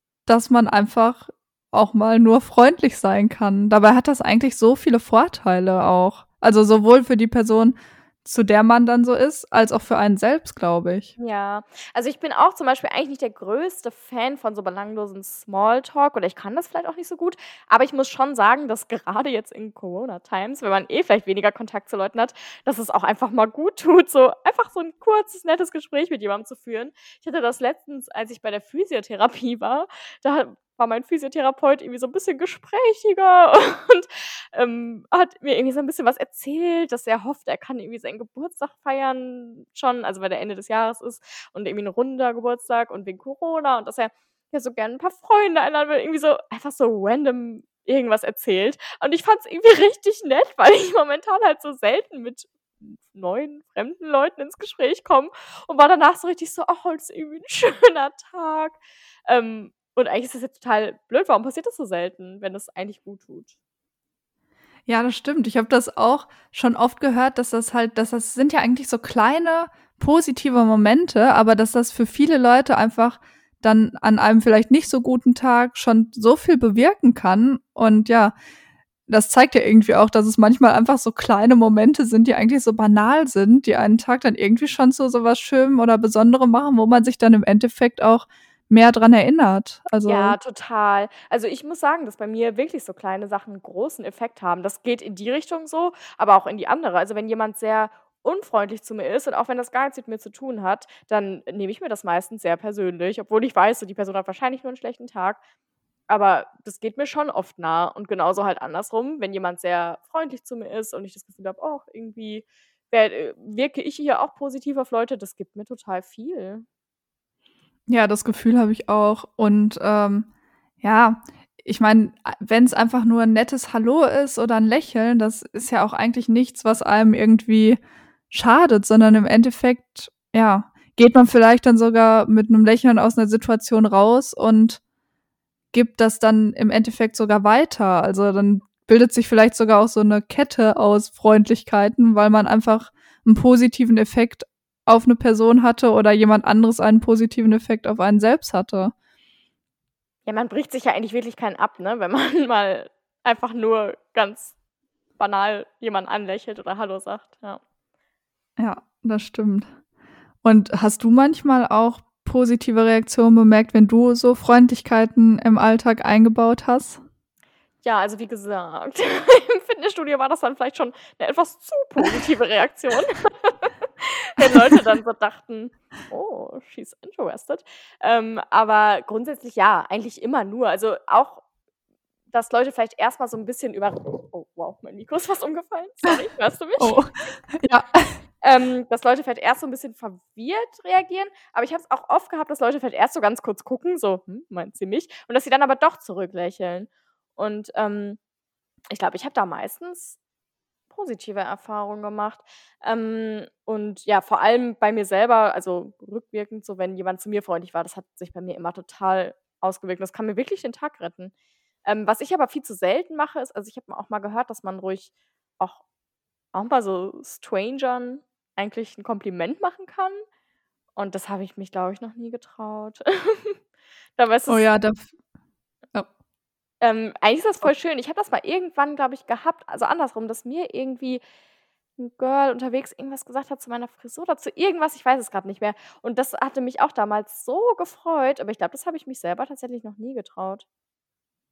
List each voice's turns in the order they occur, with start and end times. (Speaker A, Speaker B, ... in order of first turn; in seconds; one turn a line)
Speaker A: 0.3-11.1
Speaker B: 11.2-63.5
Speaker A: 64.9-78.3
Speaker A: 79.1-90.4
Speaker B: 90.0-105.4
Speaker B: 106.1-116.7
Speaker A: 117.9-120.3
Speaker A: 120.8-127.8
Speaker A: 128.3-134.8
Speaker A: 135.7-148.9
Speaker B: 150.3-154.5
Speaker B: 155.2-157.6
Speaker A: 158.6-159.7
Speaker A: 160.4-167.0
Speaker B: 167.8-181.4
Speaker B: 182.3-187.0
Speaker A: 186.8-188.2
Speaker B: 188.4-198.2
Speaker B: 198.9-200.2
Speaker B: 200.9-211.3
Speaker B: 211.8-215.8
Speaker B: 216.5-220.2
Speaker B: 221.0-223.6
Speaker B: 224.2-224.7
Speaker A: 224.5-225.1
Speaker B: 226.8-231.2
Speaker B: 232.0-240.7